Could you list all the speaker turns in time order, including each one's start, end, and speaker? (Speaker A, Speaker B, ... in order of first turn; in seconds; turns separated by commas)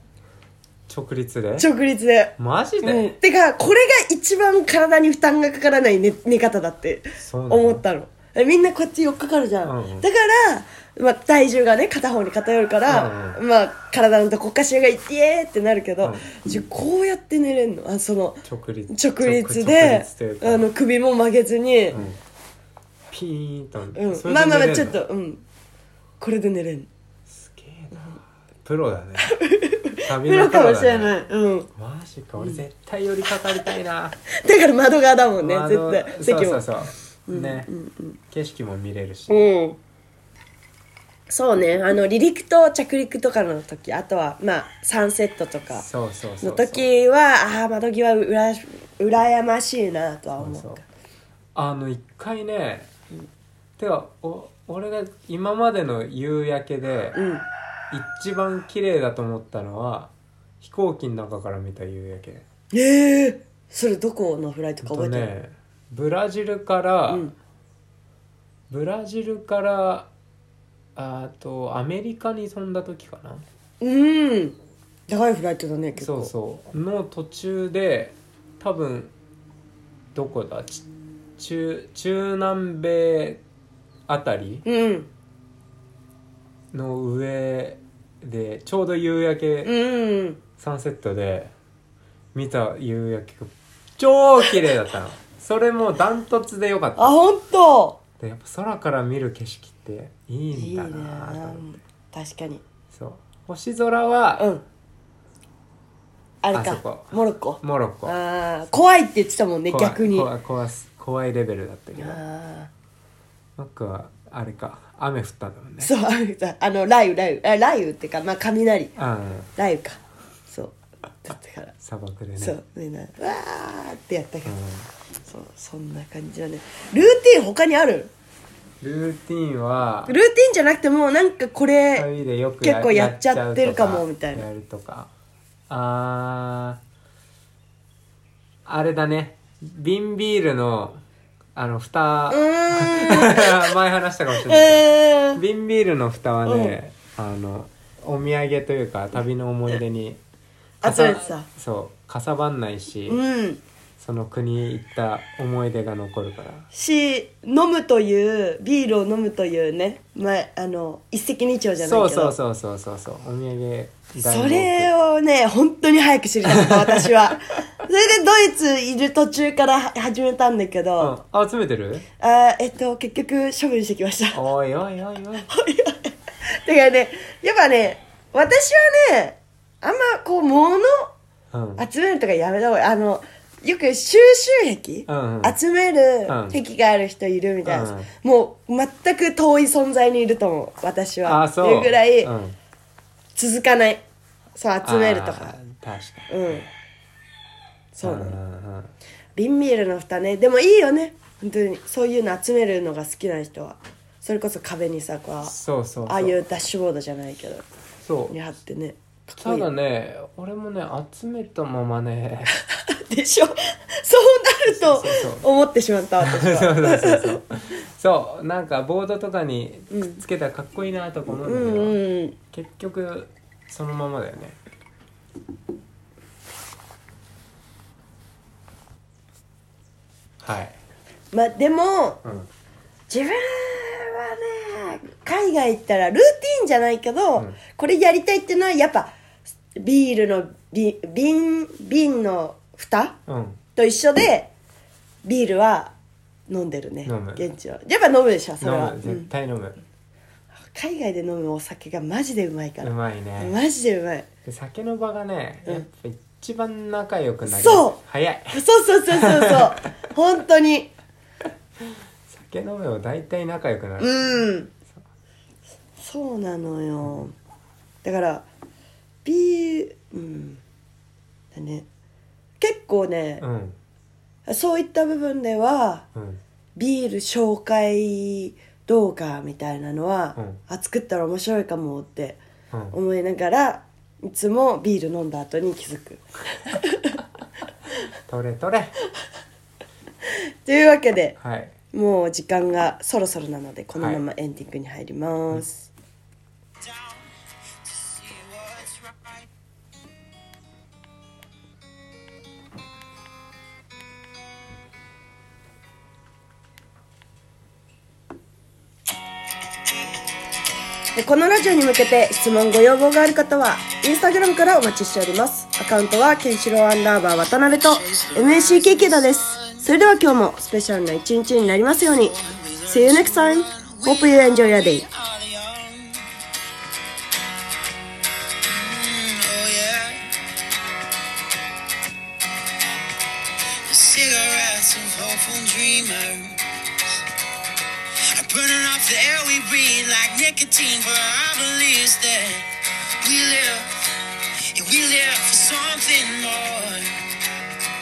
Speaker A: 0.9-1.6, Speaker B: 1.6-22.0, Speaker A: 2.4-3.1, Speaker A: 7.2-7.8, Speaker A: 9.6-10.1, Speaker A: 12.8-13.4, Speaker A: 18.4-20.7, Speaker A: 21.9-22.2, Speaker A: 23.1-25.0, Speaker B: 23.9-25.4, Speaker B: 26.2-26.9, Speaker A: 27.3-29.3, Speaker B: 29.2-31.7, Speaker A: 30.0-31.1, Speaker A: 31.8-34.2, Speaker B: 34.3-36.6, Speaker A: 35.4-37.7, Speaker B: 37.3-38.2, Speaker A: 38.3-39.5, Speaker B: 39.3-39.8, Speaker B: 41.3-45.8, Speaker A: 45.7-46.8, Speaker B: 46.4-50.8, Speaker A: 50.4-50.8, Speaker A: 51.5-52.9, Speaker A: 53.8-57.2, Speaker B: 57.1-57.4, Speaker A: 57.9-62.4, Speaker B: 62.7-65.3, Speaker A: 64.8-67.3, Speaker B: 67.1-67.3, Speaker A: 68.7-70.1, Speaker A: 71.0-73.4, Speaker B: 73.8-74.5, Speaker B: 75.1-76.3, Speaker A: 76.0-79.1, Speaker A: 80.1-80.8, Speaker A: 81.4-83.4, Speaker A: 84.1-84.6, Speaker B: 84.6-85.1, Speaker A: 86.7-89.7, Speaker B: 89.6-90.4, Speaker A: 90.6-91.5, Speaker A: 92.3-97.2, Speaker B: 97.0-98.0, Speaker A: 98.2-101.7, Speaker B: 100.5-102.6, Speaker A: 102.9-104.5, Speaker B: 104.4-104.6, Speaker B: 106.4-110.3, Speaker A: 106.5-108.2, Speaker A: 109.7-112.2, Speaker B: 112.0-112.7, Speaker A: 113.6-115.9, Speaker B: 115.8-118.9, Speaker A: 119.0-119.5, Speaker B: 119.5-121.7, Speaker A: 121.8-122.6, Speaker B: 122.4-124.5, Speaker A: 124.4-124.9, Speaker B: 125.2-128.1, Speaker A: 128.8-130.2, Speaker B: 130.1-132.1, Speaker A: 131.9-135.1, Speaker B: 132.6-134.4, Speaker A: 135.7-136.8, Speaker A: 138.6-141.0, Speaker A: 141.5-150.2, Speaker B: 142.3-143.7, Speaker B: 144.4-145.4, Speaker B: 146.4-146.8, Speaker B: 150.8-151.5, Speaker A: 150.8-153.2, Speaker B: 153.1-153.6, Speaker A: 154.0-156.7, Speaker B: 156.7-162.3, Speaker A: 161.8-164.9, Speaker B: 164.2-171.1, Speaker A: 166.4-167.0, Speaker A: 171.0-172.1, Speaker B: 172.2-174.4, Speaker A: 174.3-175.5, Speaker B: 175.5-181.1, Speaker A: 181.5-181.8, Speaker B: 181.8-192.3, Speaker A: 185.1-185.6, Speaker A: 186.3-186.6, Speaker A: 187.6-188.1, Speaker A: 191.2-192.6, Speaker B: 193.3-194.0, Speaker B: 194.6-195.6, Speaker A: 194.8-196.6, Speaker B: 196.3-196.7, Speaker B: 197.9-198.4, Speaker A: 198.0-198.9, Speaker B: 199.3-205.5, Speaker A: 205.4-206.4, Speaker B: 206.1-207.6, Speaker A: 208.0-208.3, Speaker B: 208.3-209.7, Speaker A: 209.4-212.5, Speaker B: 212.7-217.4, Speaker A: 214.7-215.4, Speaker A: 216.2-222.0, Speaker B: 219.9-220.2, Speaker B: 221.4-222.3, Speaker A: 222.5-224.6, Speaker A: 230.4-230.8, Speaker B: 231.3-232.2, Speaker B: 233.1-239.1, Speaker B: 239.8-243.2, Speaker A: 243.3-243.6, Speaker B: 243.8-244.5, Speaker B: 245.2-245.9, Speaker B: 246.5-249.3, Speaker A: 247.0-247.5, Speaker A: 248.6-249.8, Speaker B: 250.6-254.3, Speaker A: 252.8-253.6, Speaker A: 254.4-258.6, Speaker B: 257.4-258.0, Speaker B: 258.5-260.9, Speaker A: 259.2-259.7, Speaker A: 262.3-264.3, Speaker B: 264.0-264.7, Speaker B: 266.0-267.3, Speaker B: 268.0-268.5, Speaker B: 269.2-270.6, Speaker B: 271.5-271.9, Speaker B: 272.6-273.4, Speaker A: 273.4-273.8, Speaker B: 274.4-276.1, Speaker A: 276.1-276.4, Speaker B: 276.8-282.4, Speaker A: 282.7-283.0, Speaker B: 282.9-287.2, Speaker A: 288.3-288.9, Speaker B: 290.6-291.4, Speaker A: 291.4-291.7, Speaker B: 291.9-295.9, Speaker A: 294.0-294.2, Speaker C: 298.1-299.0, Speaker B: 311.1-325.1, Speaker C: 318.4-319.0, Speaker C: 322.5-326.2, Speaker C: 328.6-330.3, Speaker C: 333.8-336.6, Speaker C: 338.2-344.0, Speaker C: 344.6-347.2